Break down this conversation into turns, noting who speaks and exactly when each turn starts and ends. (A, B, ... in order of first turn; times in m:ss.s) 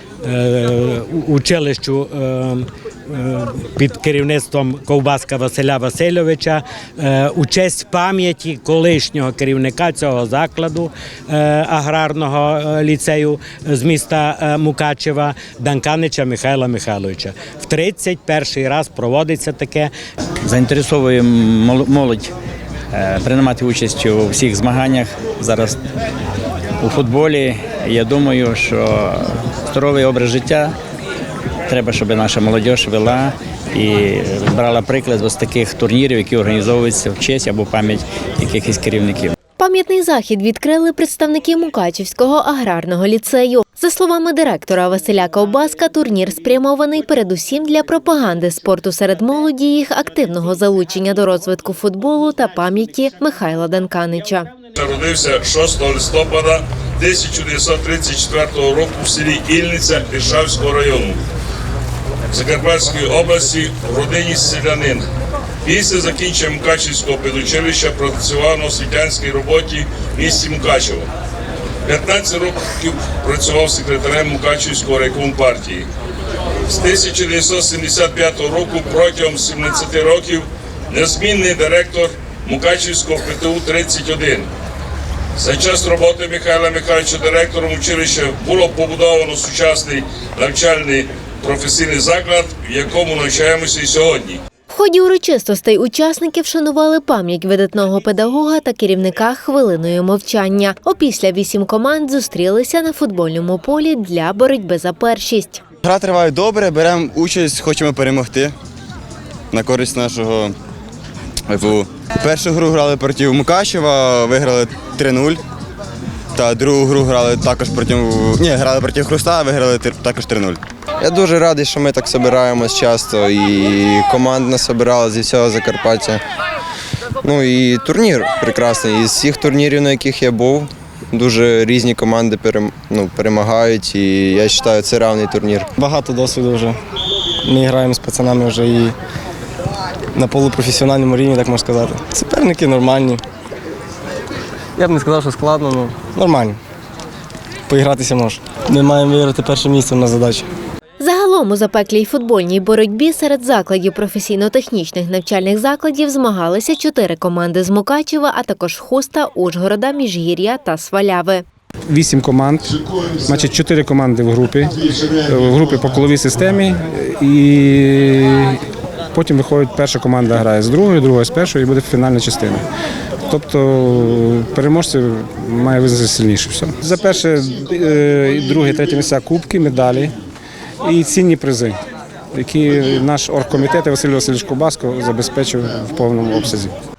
0:00.2-0:19.9 A
0:20.4-0:22.3 B
0:22.9-0:25.8 B
0:26.8-0:30.7 B
0:31.7-0:39.3 B
0:39.6-0:54.5 C
0:54.8-1:01.2 D
1:02.3-1:05.0 D
1:05.6-1:11.1 D
1:11.8-1:15.9 D
1:16.7-1:24.5 D
1:25.4-1:34.4 D
1:34.7-1:45.6 C
1:45.8-1:48.5 E
1:49.5-1:50.5 E
1:51.5-1:55.4 E
1:56.3-2:00.6 E
2:01.0-2:06.2 F
2:07.2-2:15.7 F
2:15.8-2:16.8 G
2:17.4-2:19.0 G
2:20.1-2:23.2 G
2:24.8-2:26.6 G
2:27.7-2:30.4 G
2:31.0-2:41.4 C
2:41.9-2:48.6 H
2:49.1-2:52.6 H
2:53.3-3:00.1 H
3:00.8-3:01.8 H
3:02.3-3:06.7 H